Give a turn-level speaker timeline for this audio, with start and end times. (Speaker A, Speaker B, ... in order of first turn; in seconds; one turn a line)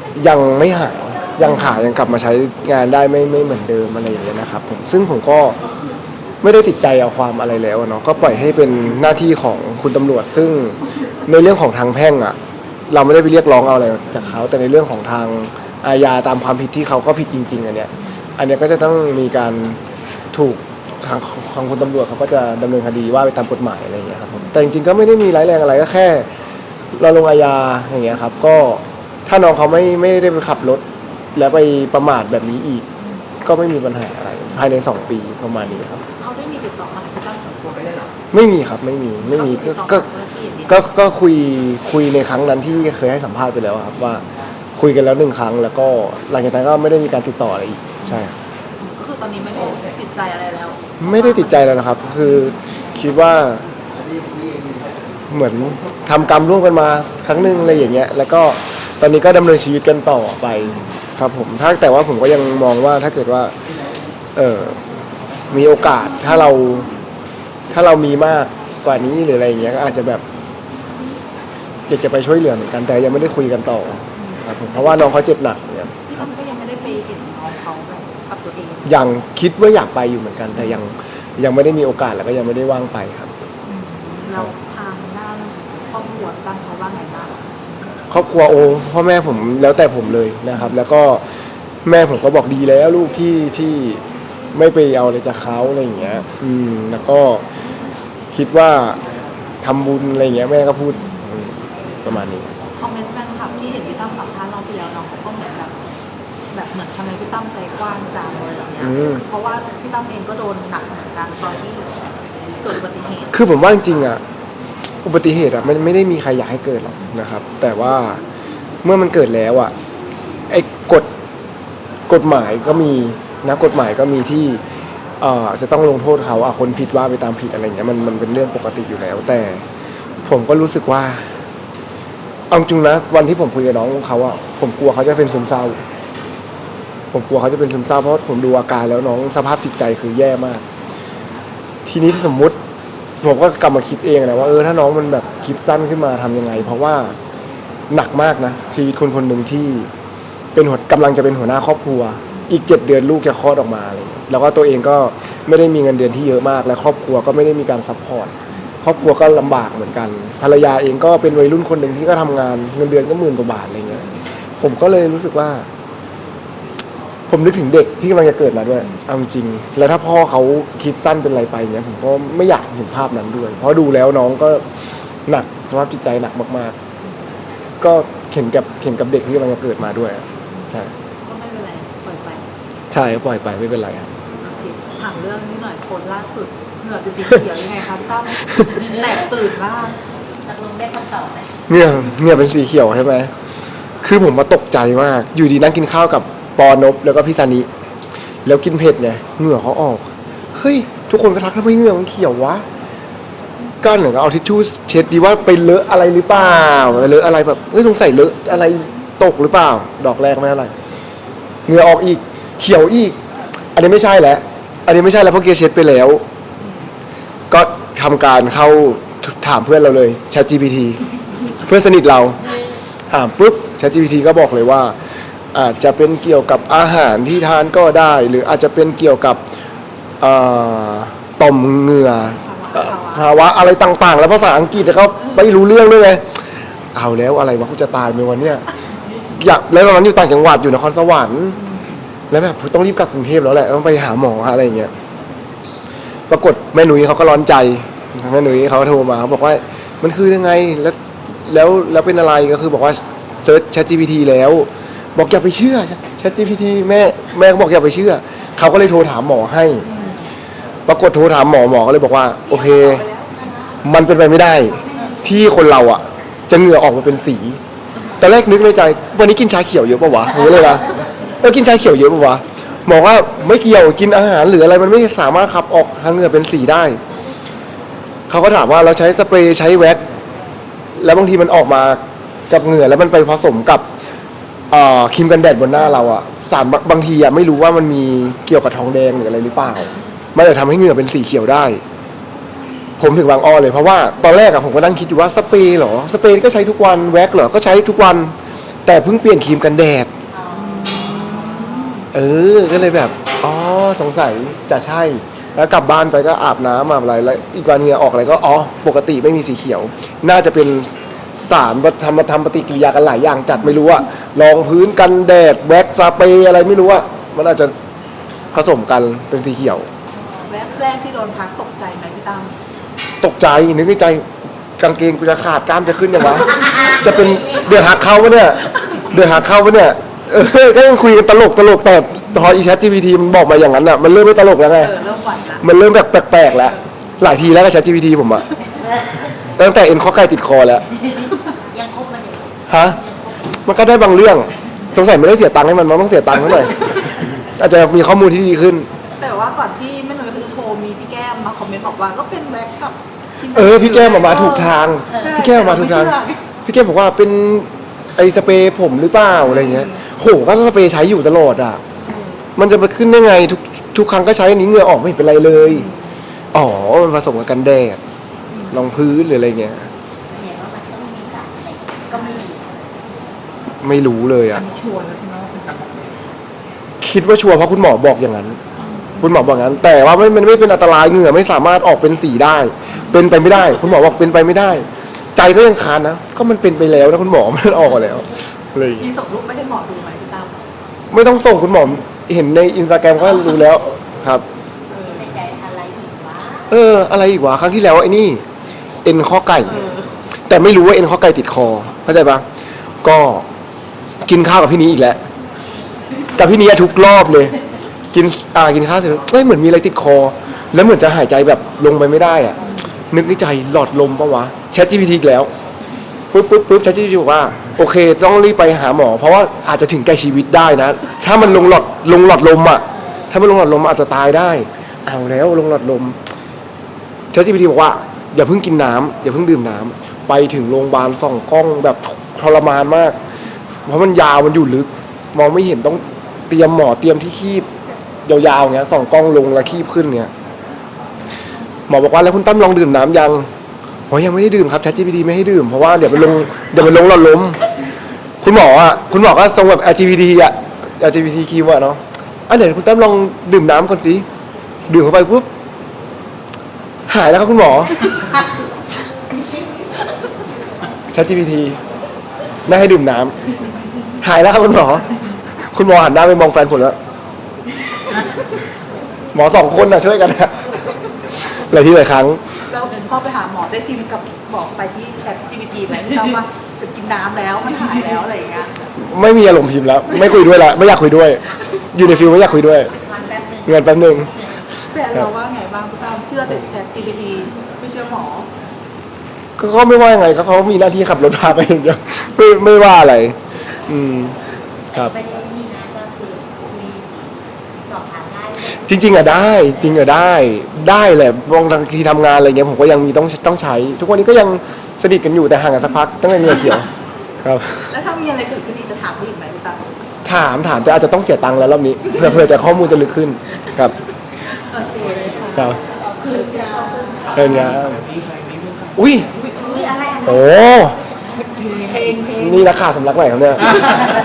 Speaker A: 0.1-5.6
Speaker B: 1.4-1.8
Speaker A: 6.4-12.4
Speaker A: 12.9-19.8
Speaker A: 20.3-26.3
Speaker B: 24.3-24.6
Speaker A: 26.9-30.8
Speaker A: 31.3-32.9
Speaker A: 33.4-36.0
Speaker B: 36.2-38.0
Speaker A: 38.3-40.1
Speaker B: 39.2-40.8
Speaker A: 40.7-44.2
Speaker A: 44.8-48.3
Speaker B: 48.8-51.7
Speaker A: 51.0-53.6
Speaker A: 55.3-63.5
Speaker A: 64.3-64.8
Speaker A: 65.5-66.9
Speaker A: 67.7-70.2
Speaker A: 71.9-76.2
Speaker B: 74.2-74.8
Speaker B: 76.1-79.0
Speaker A: 78.8-83.3
Speaker B: 83.7-87.9
Speaker A: 88.1-91.2
Speaker A: 91.8-94.0
Speaker A: 94.5-97.4
Speaker A: 98.3-99.0
Speaker A: 99.6-102.5
Speaker B: 100.9-101.2
Speaker B: 102.7-105.8
Speaker B: 106.5-113.4
Speaker A: 108.8-109.2
Speaker A: 113.3-114.2
Speaker A: 115.0-118.2
Speaker A: 118.8-119.7
Speaker A: 120.5-121.0
Speaker A: 122.1-124.6
Speaker A: 125.2-129.6
Speaker A: 130.2-131.2
Speaker A: 132.5-135.8
Speaker A: 137.1-140.6
Speaker A: 141.8-142.6
Speaker A: 143.2-147.1
Speaker A: 147.9-149.9
Speaker A: 150.5-164.1
Speaker A: 164.6-165.7
Speaker A: 167.3-174.6
Speaker A: 175.3-176.8
Speaker A: 177.8-180.9
Speaker B: 181.2-182.4
Speaker A: 182.9-184.1
Speaker B: 184.4-189.9
Speaker C: 190.4-191.5
Speaker A: 191.7-193.3
Speaker A: 194.0-197.7
Speaker A: 198.4-202.6
Speaker A: 203.8-210.7
Speaker B: 206.5-206.9
Speaker A: 211.7-213.2
Speaker A: 213.7-216.2
Speaker A: 217.5-221.0
Speaker A: 221.6-222.4
Speaker A: 223.1-224.9
Speaker A: 225.5-229.4
Speaker A: 230.2-236.2
Speaker B: 232.4-233.5
Speaker A: 236.9-238.6
Speaker A: 239.3-241.6
Speaker A: 242.3-244.9
Speaker A: 246.3-259.9
Speaker B: 259.9-260.2
Speaker A: 260.9-263.1
Speaker A: 263.8-267.6
Speaker A: 268.2-270.8
Speaker A: 271.4-277.0
Speaker A: 278.3-280.0
Speaker A: 281.0-282.0
Speaker A: 282.5-283.8
Speaker A: 284.7-291.8
Speaker A: 293.0-298.3
Speaker A: 298.9-300.1
Speaker C: 300.3-300.7
Speaker B: 300.5-302.1
Speaker A: 302.1-317.7
Speaker A: 318.5-319.9
Speaker B: 320.4-322.5
Speaker A: 323.2-334.9
Speaker B: 334.8-335.6
Speaker A: 335.6-338.4
Speaker A: 339.6-340.8
Speaker C: 341.7-342.5
Speaker A: 342.7-343.0
Speaker A: 343.6-348.9
Speaker B: 349.2-356.4
Speaker A: 353.5-356.1
Speaker A: 356.6-361.8
Speaker B: 362.1-362.4
Speaker A: 362.6-365.9
Speaker B: 365.7-366.0
Speaker A: 366.5-368.0
Speaker B: 368.5-368.8
Speaker A: 368.7-369.9
Speaker C: 370.3-372.8
Speaker A: 373.8-374.7
Speaker B: 374.6-376.1
Speaker A: 377.0-378.6
Speaker B: 378.8-379.4
Speaker A: 379.2-389.1
Speaker B: 389.0-390.7
Speaker A: 391.1-394.4
Speaker B: 394.9-395.3
Speaker C: 395.1-396.7
Speaker A: 396.7-398.4
Speaker A: 399.0-399.9
Speaker B: 399.7-400.1
Speaker A: 400.5-402.4
Speaker A: 403.0-403.4
Speaker A: 404.2-405.2
Speaker A: 406.4-407.6
Speaker A: 408.1-412.6
Speaker A: 413.1-415.5
Speaker A: 416.3-426.2
Speaker A: 427.3-433.1
Speaker A: 433.9-437.7
Speaker A: 438.2-440.3
Speaker A: 441.9-443.5
Speaker A: 444.1-447.6
Speaker A: 448.4-454.2
Speaker A: 454.9-455.5
Speaker A: 457.1-458.1
Speaker A: 461.1-461.8
Speaker A: 462.7-463.4
Speaker A: 464.2-465.1
Speaker A: 465.7-466.9
Speaker A: 469.3-470.8
Speaker A: 471.5-472.4
Speaker B: 472.7-478.7
Speaker A: 479.0-482.9
Speaker C: 483.0-484.4
Speaker A: 483.6-484.3
Speaker B: 484.9-488.5
Speaker A: 489.6-494.4
Speaker C: 495.0-497.3
Speaker C: 497.8-498.7
Speaker A: 498.6-506.9
Speaker A: 507.4-507.9
Speaker B: 507.9-509.9
Speaker A: 510.2-513.9
Speaker B: 514.5-517.3
Speaker A: 515.5-515.8
Speaker C: 516.4-517.0
Speaker A: 517.3-518.1
Speaker A: 519.0-519.3
Speaker C: 519.6-520.4
Speaker A: 520.2-521.0
Speaker B: 521.5-522.6
Speaker A: 522.3-523.9